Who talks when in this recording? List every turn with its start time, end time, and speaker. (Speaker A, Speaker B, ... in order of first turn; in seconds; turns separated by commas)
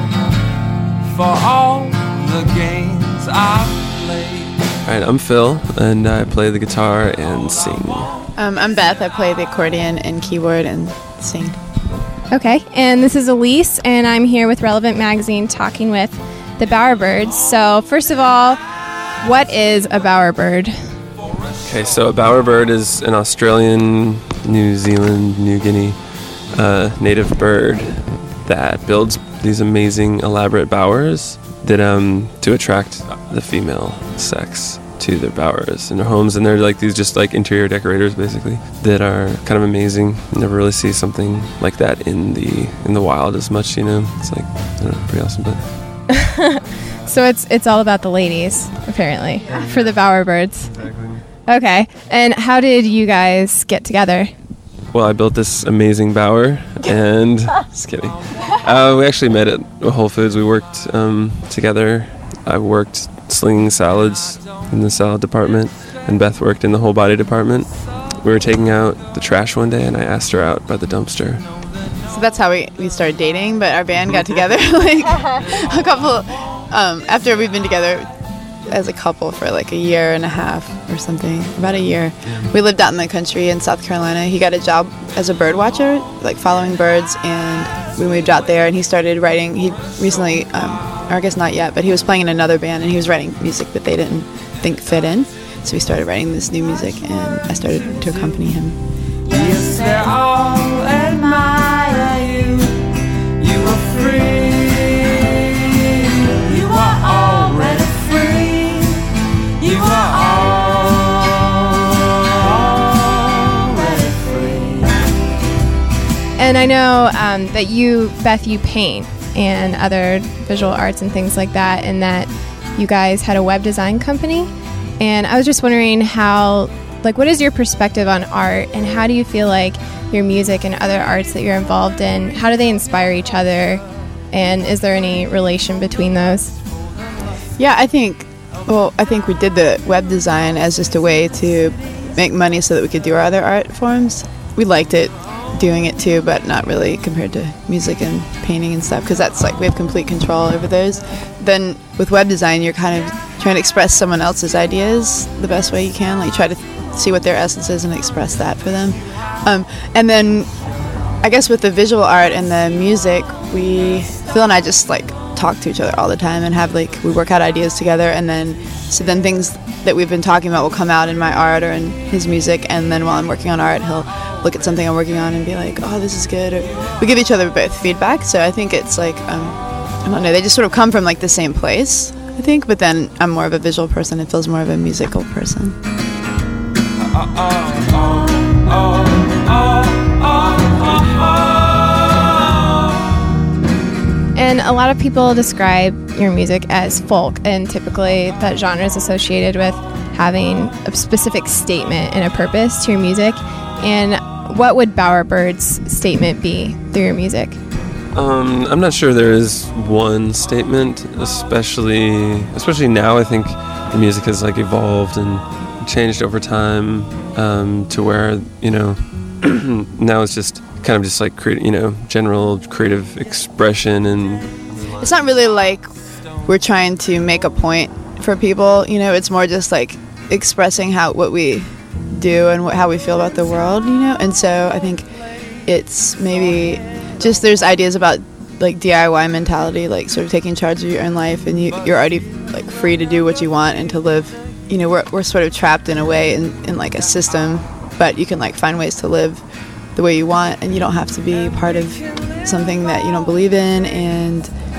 Speaker A: 1.0-4.6, Speaker B: 4.8-8.1, Speaker C: 8.3-11.6, Speaker D: 12.3-20.9, Speaker B: 21.6-45.7, Speaker D: 46.2-50.8, Speaker D: 51.5-54.3, Speaker B: 54.9-71.5, Speaker C: 72.1-98.8, Speaker A: 99.3-102.8, Speaker A: 103.4-105.7, Speaker A: 106.4-109.0, Speaker A: 109.6-115.1, Speaker D: 116.4-136.5, Speaker C: 137.6-160.5, Speaker C: 161.2-185.8, Speaker A: 187.1-192.3, Speaker D: 194.3-207.6, Speaker B: 208.1-224.6, Speaker C: 225.0-225.9, Speaker C: 226.4-235.1, Speaker C: 235.6-249.4, Speaker C: 249.9-254.5